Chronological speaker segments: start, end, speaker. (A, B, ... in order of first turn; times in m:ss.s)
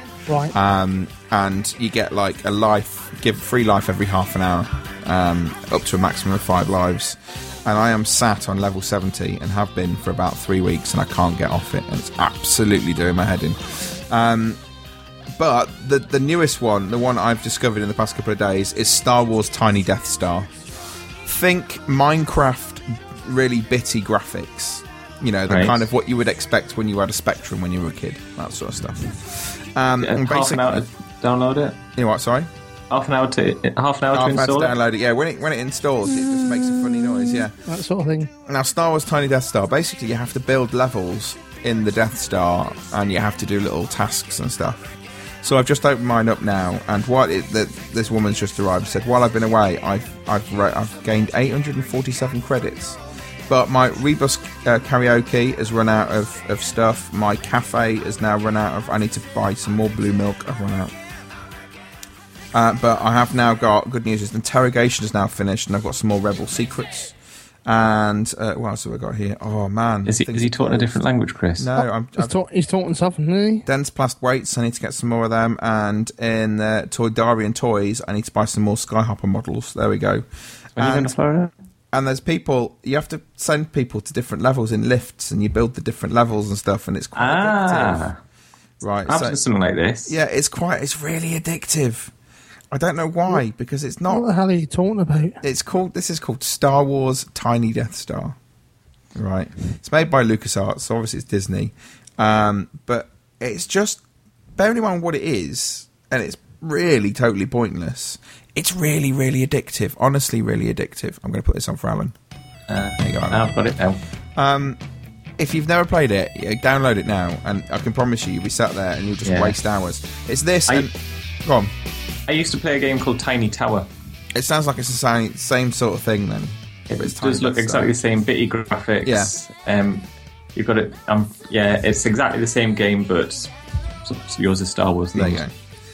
0:00.3-0:00.5 A
0:00.5-0:14.6 B
0:15.4-0:20.5 B
0:21.2-0:30.8 B
0:25.5-0:25.9 C
0:30.0-0:31.8 C
0:32.0-0:32.5 B
0:32.9-0:34.7 C
0:34.1-0:37.5 B
0:37.6-0:38.3 A
0:38.5-1:00.9 B
1:02.5-1:07.1 B
1:07.7-1:11.0 B
1:10.1-1:11.7 C
1:11.6-1:12.4 B
1:11.8-1:13.7 A
1:13.7-1:20.2 B
1:20.8-1:21.1 B
1:20.8-1:21.5 C
1:21.9-1:28.1 B
1:27.2-1:28.2 C
1:28.8-1:29.4 B
1:29.1-1:30.1 C
1:30.1-1:32.1 B
1:32.7-1:34.3 B
1:34.1-1:35.4 A
1:35.4-1:38.4 B
1:39.2-1:44.0 B
1:44.6-1:52.2 B
1:52.7-1:54.0 C
1:53.0-1:53.5 B
1:54.4-1:54.8 B
1:55.4-2:00.9 B
1:59.2-1:59.6 C
2:01.4-2:01.7 B
2:02.3-2:03.9 C
2:04.3-2:07.9 B
2:06.9-2:13.5 C
2:09.0-2:09.3 B
2:14.0-2:15.4 C
2:15.2-2:15.5 B